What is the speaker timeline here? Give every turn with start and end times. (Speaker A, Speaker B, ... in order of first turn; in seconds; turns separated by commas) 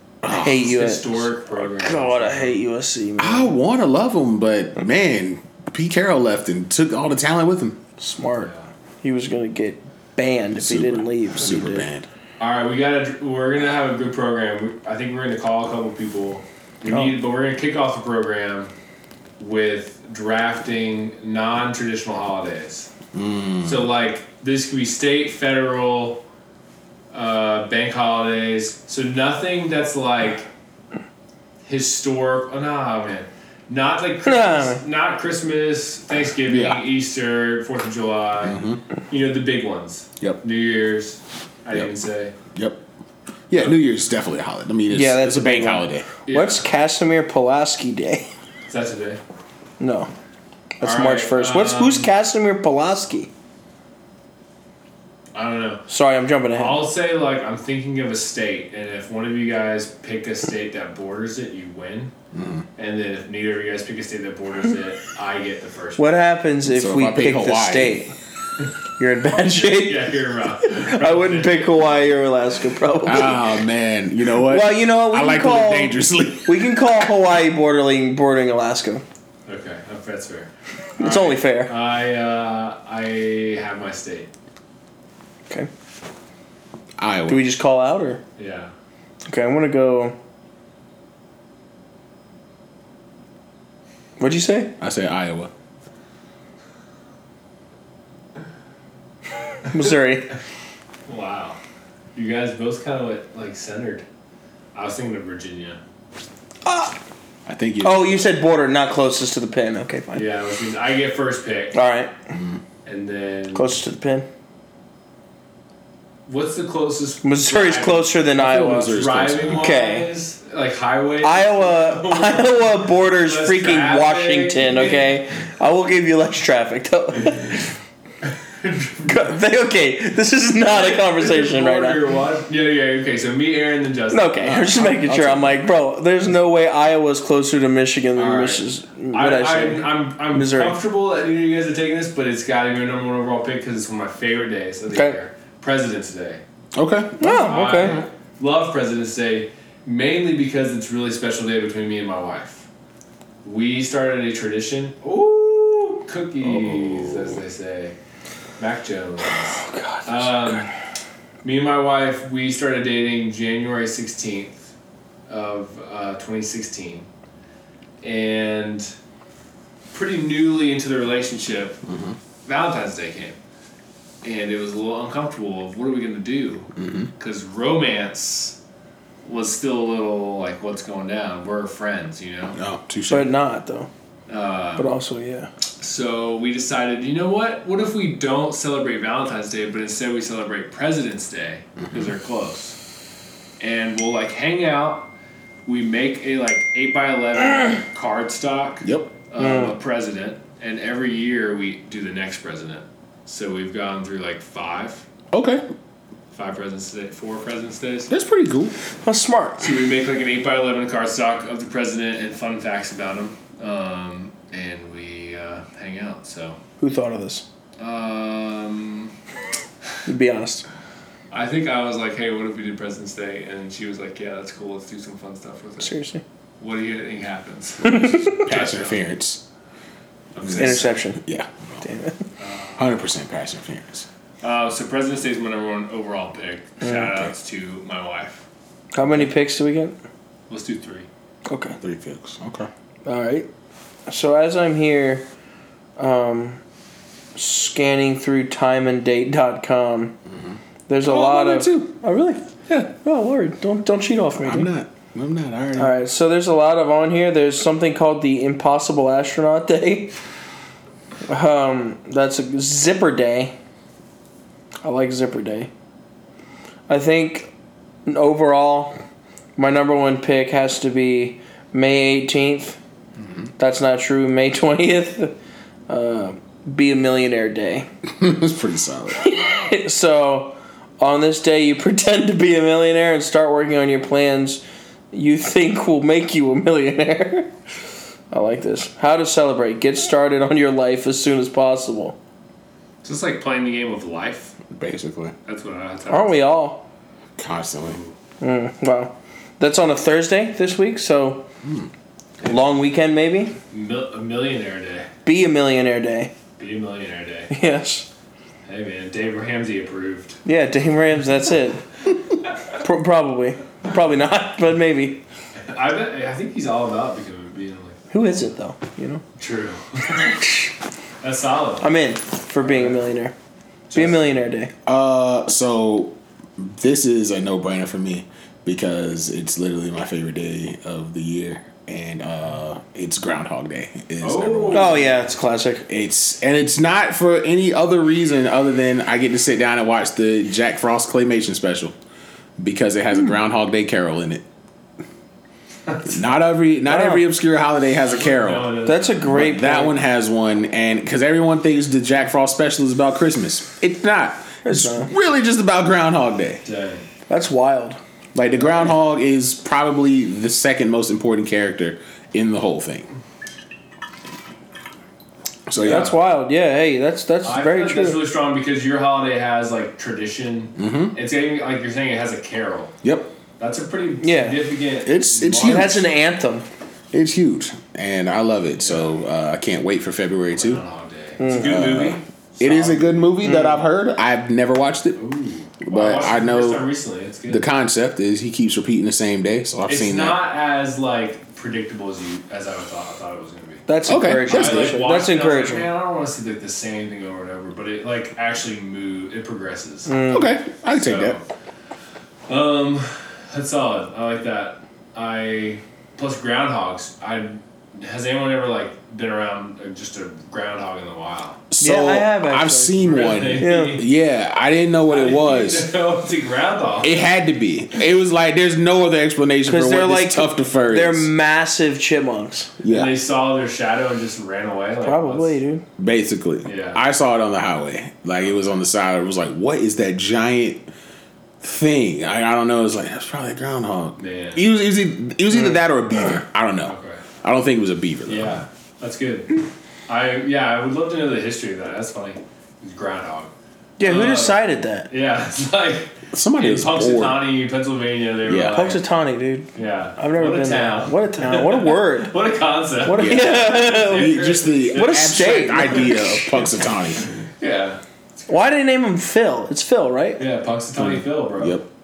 Speaker A: 0.2-0.7, Speaker B: 0.3-2.6, Speaker C: 0.4-1.3, Speaker C: 1.8-3.5, Speaker A: 3.2-7.8, Speaker C: 8.0-8.5, Speaker B: 8.4-8.6, Speaker C: 9.0-11.9, Speaker A: 10.6-12.1, Speaker B: 12.4-18.7, Speaker C: 16.9-17.1, Speaker B: 19.4-22.9, Speaker A: 23.1-23.9, Speaker B: 23.6-26.2, Speaker B: 27.1-30.5, Speaker B: 31.7-42.3, Speaker C: 34.2-34.8, Speaker A: 36.5-36.8, Speaker A: 38.4-38.8, Speaker A: 42.5-42.8, Speaker A: 43.5-46.1, Speaker C: 44.9-48.3, Speaker B: 46.3-46.7, Speaker B: 48.7-49.2, Speaker C: 49.8-50.1, Speaker C: 50.8-53.3, Speaker B: 50.8-52.1, Speaker B: 55.4-55.8, Speaker C: 55.9-56.9, Speaker B: 56.5-62.1, Speaker A: 62.3-62.6, Speaker B: 62.8-66.1, Speaker C: 66.0-68.1, Speaker A: 66.7-68.0, Speaker C: 69.0-70.1, Speaker B: 69.5-71.7, Speaker C: 70.8-73.4, Speaker A: 73.0-76.6, Speaker C: 74.5-79.0, Speaker B: 79.5-84.3, Speaker C: 81.0-81.7, Speaker A: 87.0-87.4, Speaker C: 87.3-88.2, Speaker B: 88.4-88.7, Speaker C: 89.2-90.2, Speaker C: 94.2-94.7, Speaker A: 94.8-95.5, Speaker C: 99.7-100.3, Speaker B: 101.1-101.6, Speaker B: 102.2-104.0, Speaker B: 104.7-105.8, Speaker C: 106.7-106.9, Speaker A: 107.5-108.2, Speaker C: 107.8-110.3, Speaker B: 110.1-111.8, Speaker C: 111.7-112.1, Speaker A: 112.3-112.6, Speaker B: 112.8-113.8, Speaker C: 113.5-114.3, Speaker B: 116.3-118.2, Speaker C: 117.2-119.0, Speaker A: 118.4-119.7, Speaker B: 118.8-125.2, Speaker C: 119.5-120.1, Speaker C: 121.2-127.7, Speaker B: 128.4-129.2, Speaker C: 129.1-132.0, Speaker B: 130.7-134.4, Speaker C: 134.1-140.8, Speaker A: 134.4-135.6, Speaker B: 138.2-146.4, Speaker A: 146.7-148.0, Speaker C: 147.2-148.0, Speaker B: 147.2-152.7, Speaker B: 153.4-157.9, Speaker A: 156.4-157.4, Speaker B: 158.6-160.7, Speaker C: 159.5-160.7, Speaker B: 161.4-164.7, Speaker B: 165.3-167.1, Speaker B: 168.0-168.9, Speaker B: 169.9-171.8, Speaker A: 171.9-172.2, Speaker B: 172.5-173.4, Speaker B: 174.2-178.6, Speaker A: 176.8-177.1, Speaker B: 179.2-182.6, Speaker A: 182.5-183.3, Speaker C: 183.1-183.9, Speaker B: 184.3-184.9, Speaker C: 184.8-185.5, Speaker B: 185.8-192.8, Speaker A: 191.8-192.1, Speaker B: 193.6-195.1, Speaker B: 195.7-205.1, Speaker A: 198.8-199.1, Speaker C: 199.4-199.7, Speaker A: 205.3-205.6, Speaker B: 206.3-208.1, Speaker A: 208.1-208.8, Speaker C: 209.0-209.7, Speaker B: 209.6-216.6, Speaker C: 216.8-217.4, Speaker B: 217.8-219.1, Speaker C: 220.1-220.7, Speaker B: 221.3-225.9, Speaker C: 225.8-226.2, Speaker B: 226.6-229.0, Speaker C: 227.9-228.4, Speaker A: 228.3-229.4, Speaker B: 230.4-231.0, Speaker A: 230.4-231.8, Speaker C: 230.6-231.2, Speaker C: 231.8-232.2, Speaker B: 232.4-232.8, Speaker A: 232.8-234.1, Speaker B: 234.4-238.4, Speaker C: 238.9-240.0, Speaker B: 240.5-241.1, Speaker C: 241.5-241.8, Speaker A: 241.8-242.7, Speaker C: 243.1-243.5, Speaker C: 244.1-245.3, Speaker C: 246.0-246.6, Speaker C: 247.3-250.2, Speaker A: 250.4-251.9, Speaker C: 250.9-254.7, Speaker A: 254.4-255.9, Speaker C: 255.8-260.1, Speaker C: 261.3-263.5, Speaker C: 264.8-265.7, Speaker C: 266.9-267.5, Speaker C: 268.1-269.0, Speaker C: 269.6-272.8, Speaker C: 273.6-275.4, Speaker C: 275.9-277.9, Speaker A: 278.1-279.2, Speaker C: 279.2-287.5, Speaker C: 288.3-292.2, Speaker B: 293.0-294.6, Speaker A: 294.7-295.4, Speaker B: 295.5-296.5, Speaker C: 296.1-296.9, Speaker A: 297.4-298.0, Speaker B: 297.9-298.1, Speaker C: 298.4-301.5, Speaker A: 301.6-301.9, Speaker C: 302.4-303.6, Speaker B: 303.7-305.1, Speaker C: 305.3-306.3, Speaker B: 306.6-307.5, Speaker C: 307.5-308.1, Speaker B: 308.7-310.4, Speaker C: 310.4-311.8, Speaker C: 312.8-315.2, Speaker B: 315.7-318.5, Speaker C: 318.1-319.2, Speaker B: 319.4-320.3, Speaker C: 320.2-320.7, Speaker B: 321.2-321.9, Speaker C: 321.8-323.3, Speaker B: 322.6-323.0, Speaker B: 323.9-324.3, Speaker C: 323.9-324.7, Speaker A: 324.9-335.0, Speaker B: 334.2-335.3, Speaker C: 334.7-335.9, Speaker A: 335.9-341.9, Speaker A: 342.6-344.4, Speaker A: 346.1-348.7, Speaker C: 346.9-347.2, Speaker B: 348.0-349.4, Speaker C: 348.9-349.9, Speaker A: 349.3-356.6, Speaker C: 354.6-355.1, Speaker B: 356.6-357.1, Speaker C: 357.3-358.0, Speaker A: 358.4-363.1, Speaker A: 365.7-366.1, Speaker C: 365.8-368.2, Speaker B: 365.8-366.1, Speaker B: 367.4-372.9, Speaker A: 370.8-371.2, Speaker A: 373.0-373.3, Speaker B: 373.6-376.0, Speaker C: 374.2-374.6, Speaker A: 375.1-376.0, Speaker C: 375.6-376.7, Speaker A: 377.1-380.8, Speaker B: 378.8-379.1, Speaker B: 380.5-383.4, Speaker C: 381.4-381.8, Speaker A: 381.5-385.2, Speaker C: 383.4-383.8, Speaker B: 385.2-387.7, Speaker A: 385.8-386.8, Speaker A: 387.5-390.4, Speaker B: 389.9-400.1, Speaker C: 393.9-395.9, Speaker A: 394.1-395.0, Speaker C: 400.1-400.6, Speaker A: 400.3-401.4, Speaker B: 400.9-401.4, Speaker B: 402.5-411.6, Speaker A: 411.7-415.9, Speaker C: 411.8-414.0, Speaker B: 413.0-414.1, Speaker B: 415.1-417.2, Speaker A: 417.0-421.3, Speaker C: 419.7-422.7, Speaker A: 422.8-423.1, Speaker B: 422.9-425.6, Speaker C: 425.1-425.8, Speaker A: 426.0-430.9, Speaker B: 426.6-427.0, Speaker A: 431.6-438.6, Speaker B: 434.2-434.6, Speaker B: 436.8-437.2, Speaker B: 438.3-449.0, Speaker C: 444.0-445.1, Speaker A: 446.3-447.4, Speaker A: 448.5-448.9, Speaker C: 448.7-452.3, Speaker B: 449.8-456.1, Speaker C: 453.0-454.3, Speaker A: 453.2-457.3, Speaker C: 454.9-456.4, Speaker B: 457.4-458.0, Speaker C: 458.5-460.4, Speaker B: 460.4-461.8, Speaker A: 461.0-461.9